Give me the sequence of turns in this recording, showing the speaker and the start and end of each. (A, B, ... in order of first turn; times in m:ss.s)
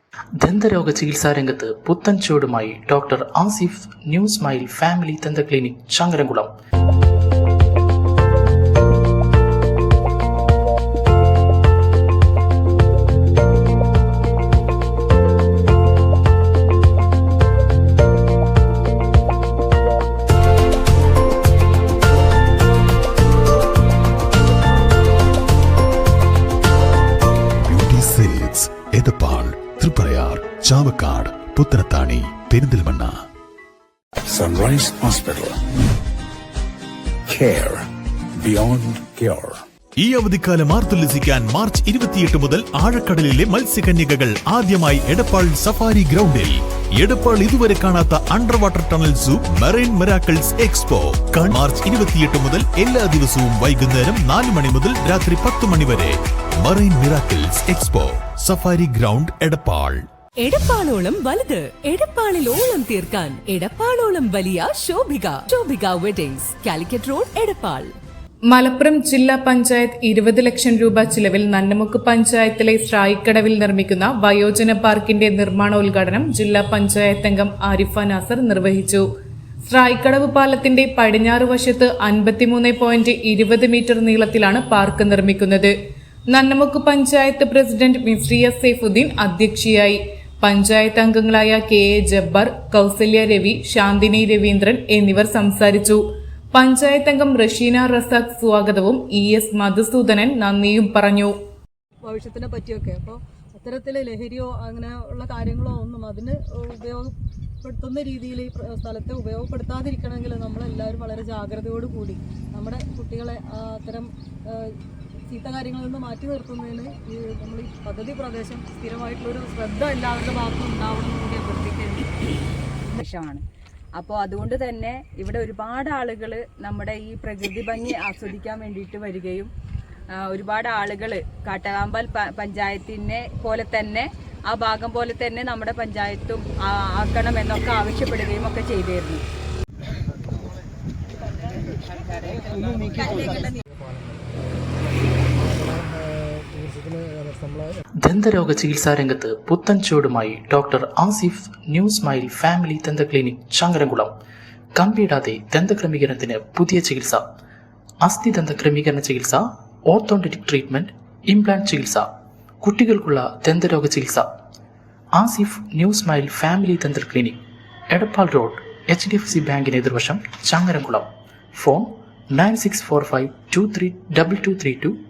0:00.4-0:06.5 A
0:27.7-0:33.1 B
0:34.3-0:35.6 C
0:37.3-0:39.6 C
0:40.0-1:00.0 B
1:00.4-1:07.9 D
1:08.5-1:19.0 E
1:19.6-1:25.7 E
1:26.3-1:36.0 E
1:36.5-1:41.3 E
1:42.0-2:02.1 F
2:02.9-2:03.4 G
2:04.0-2:09.5 G
2:10.2-2:19.2 G
2:23.0-2:23.4 G
2:28.0-2:34.1 A
2:34.7-2:37.2 A
2:38.0-2:42.1 A
2:42.6-2:44.3 A
2:45.1-2:47.4 A
2:47.9-2:55.0 A